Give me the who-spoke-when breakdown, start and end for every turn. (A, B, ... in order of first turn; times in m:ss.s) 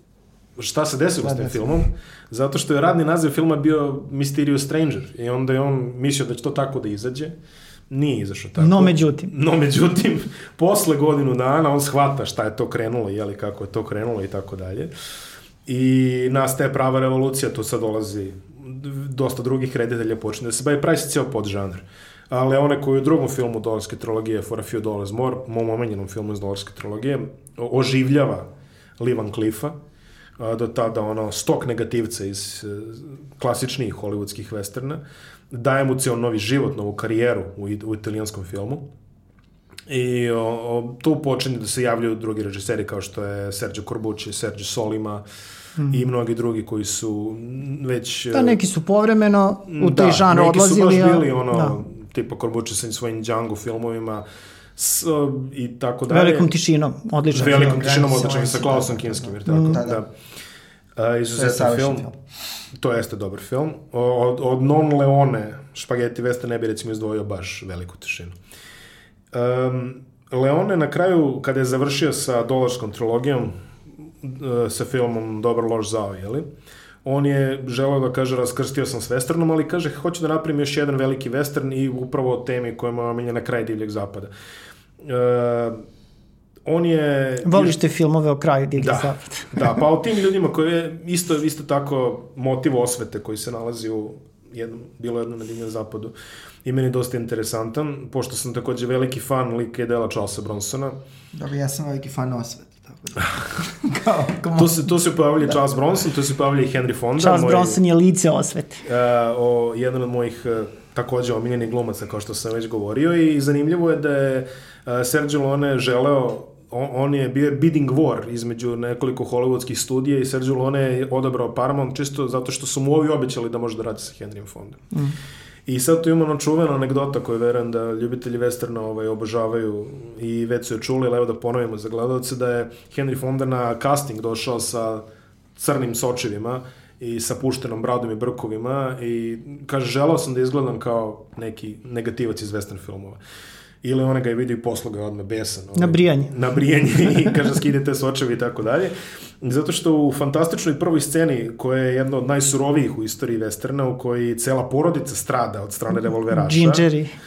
0:00.6-0:07.3 A
0:01.2-0:01.8 B
0:07.9-0:14.9 A
0:08.6-0:09.3 C
0:15.6-0:29.8 A
0:30.4-0:38.8 A
0:39.9-0:45.2 A
0:45.9-0:48.6 A
0:48.3-0:51.8 C
0:49.7-0:54.2 A
0:54.8-0:56.5 A
0:56.1-0:58.4 C
0:57.3-1:00.1 A
0:57.3-1:00.0 B
0:59.5-0:59.8 C
1:01.0-1:02.0 A
1:01.3-1:02.2 B
1:02.8-1:08.4 A
1:09.3-1:13.5 A
1:14.2-1:16.5 A
1:17.0-1:24.3 A
1:25.0-1:25.8 A
1:26.6-1:27.8 A
1:27.4-1:29.8 C
1:28.8-1:36.1 A
1:36.6-1:41.0 A
1:41.3-1:44.8 B
1:44.5-1:47.8 A
1:47.2-1:48.8 C
1:48.8-2:04.9 A
2:05.6-2:15.0 A
2:15.6-2:23.2 A
2:23.8-2:36.8 A
2:25.8-2:26.5 C
2:27.1-2:27.4 C
2:36.1-2:37.1 C